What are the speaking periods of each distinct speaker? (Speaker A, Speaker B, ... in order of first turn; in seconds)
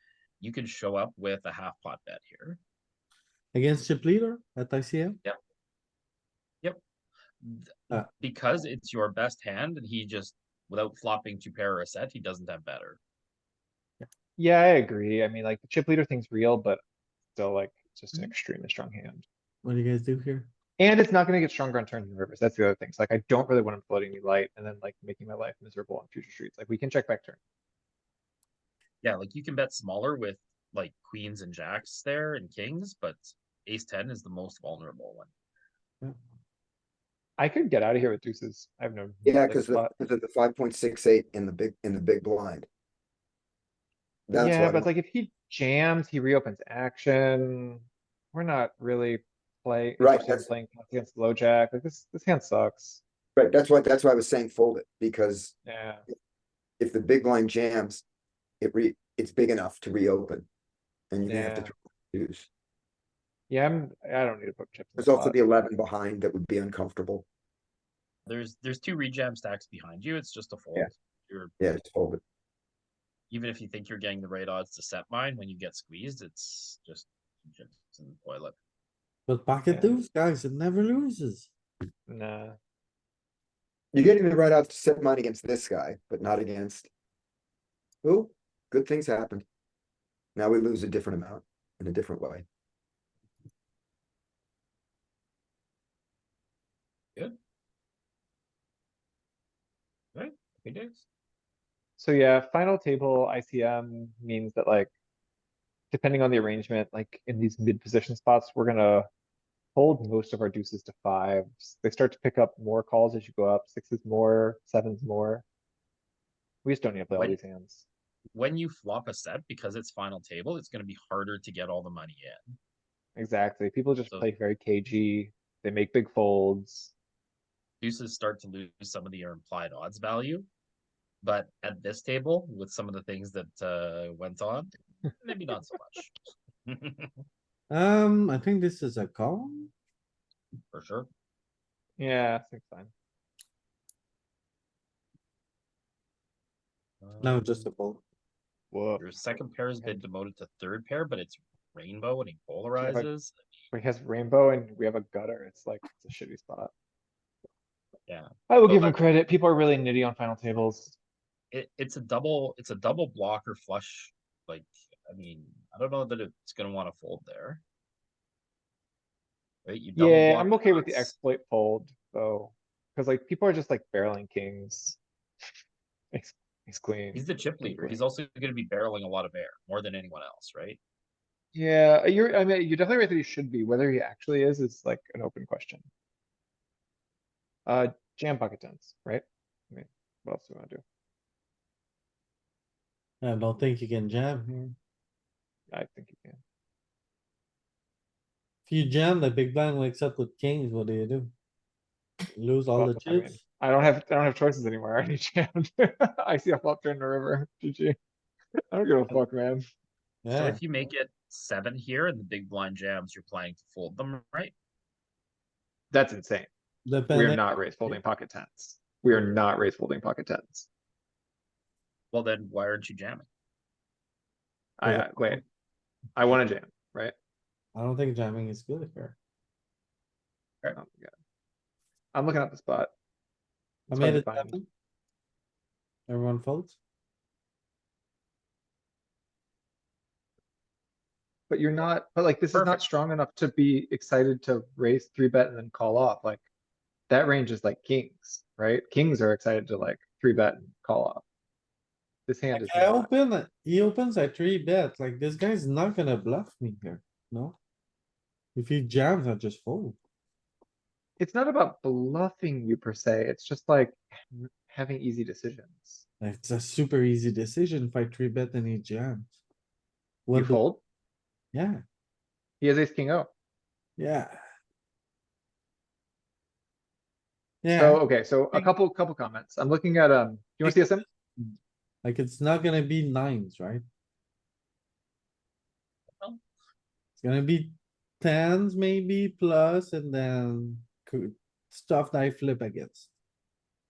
Speaker A: 0.4-2.6, 7.4-13.0, 29.0-35.3, 68.3-71.5, 73.3-78.6, 100.2-101.0, 117.1-117.4, 118.3-122.5, 127.8-130.5, 131.2-134.7, 135.2-136.1, 136.7-137.2, 140.7-141.1, 147.0-147.7, 149.0-153.4, 158.1-159.0, 161.5-167.6, 169.7-171.1, 177.1-180.8, 210.3-214.5, 222.1-223.3, 242.5-242.8
Speaker B: 3.5-5.2, 19.6-20.5, 79.3-81.5, 137.7-139.7, 147.2-148.0, 193.2-194.7, 198.7-201.3, 202.3-203.4, 210.2-210.6, 216.8-218.0, 224.8-225.4, 227.8-229.2, 233.9-234.7, 236.1-236.8, 252.5-257.6, 258.5-260.0, 266.2-269.3, 270.2-270.6, 271.5-271.8, 274.0-274.4, 277.6-278.7, 280.6-283.8, 287.2-293.1
Speaker C: 14.4-16.8, 17.3-19.2, 20.8-27.4, 37.4-39.9, 44.3-53.0, 55.7-56.0, 61.2-61.7, 63.5-65.5, 82.1-82.6, 102.0-104.9, 105.9-109.1, 109.8-115.4, 116.7-117.8, 123.2-126.9, 142.0-142.9, 148.7-149.0, 152.8-153.1, 153.7-156.7, 158.5-161.0, 170.0-175.0, 176.1-178.0, 181.6-185.8, 187.7-190.8, 195.7-196.4, 202.8-208.0, 208.7-209.7, 215.9-216.5, 217.1-220.7, 224.8-225.4, 226.2-227.1, 230.8-231.1, 232.1-232.9, 233.9-234.6, 241.5-246.4, 247.1-251.2, 252.3-253.1, 261.2-266.0, 270.3-270.8, 272.6-273.3, 277.7-281.0
Speaker D: 39.2-42.7, 44.3-44.9, 50.0-50.5, 53.4-55.5, 56.8-58.0, 58.6-60.5, 61.1-62.5, 65.0-67.2, 71.6-72.2, 83.9-86.9, 88.0-89.5, 90.3-92.5